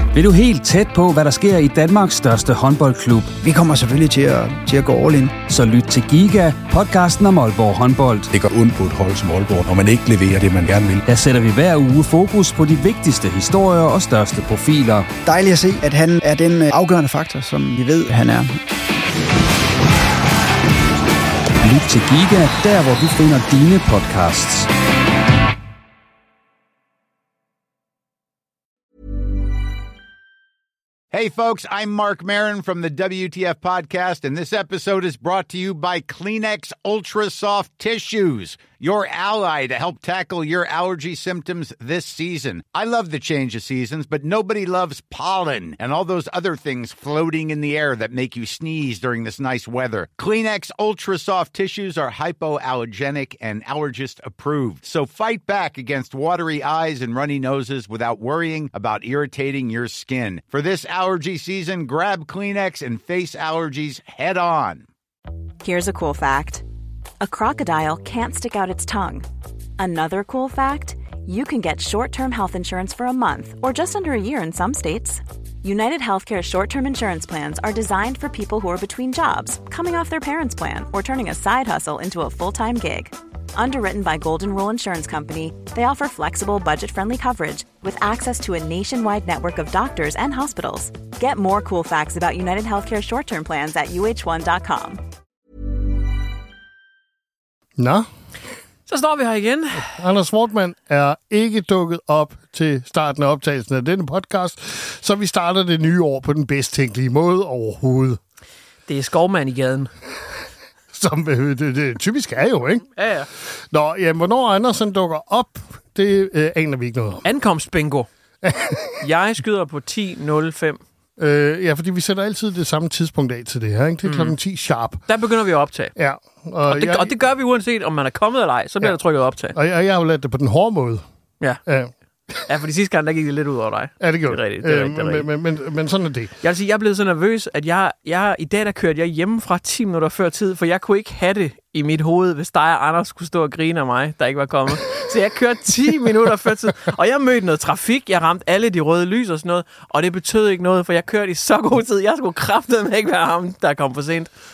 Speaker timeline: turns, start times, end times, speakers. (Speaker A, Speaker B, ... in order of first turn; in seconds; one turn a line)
Speaker A: 0.1-3.3
Speaker B: 3.4-5.4
Speaker A: 5.5-8.3
Speaker C: 8.3-11.0
Speaker A: 11.1-15.1
Speaker B: 15.2-18.6
Speaker A: 21.6-24.7
Speaker D: 31.1-64.8
Speaker E: 65.6-66.6
Speaker E: 67.2-69.2
Speaker E: 69.8-95.0
Speaker F: 97.8-98.1
Speaker G: 98.9-99.9
Speaker F: 99.8-108.2
Speaker G: 108.9-109.9
Speaker F: 110.9-112.9
Speaker G: 113.0-113.3
Speaker F: 113.4-117.2
Speaker G: 117.2-118.1
Speaker F: 118.4-119.0
Speaker G: 119.0-120.8
Speaker F: 121.2-125.0
Speaker G: 124.0-124.3
Speaker G: 125.1-125.9
Speaker F: 126.0-127.2
Speaker G: 126.7-129.6
Speaker F: 129.5-131.0
Speaker F: 131.7-132.4
Speaker G: 132.5-135.3
Speaker F: 134.0-136.3
Speaker G: 136.4-154.3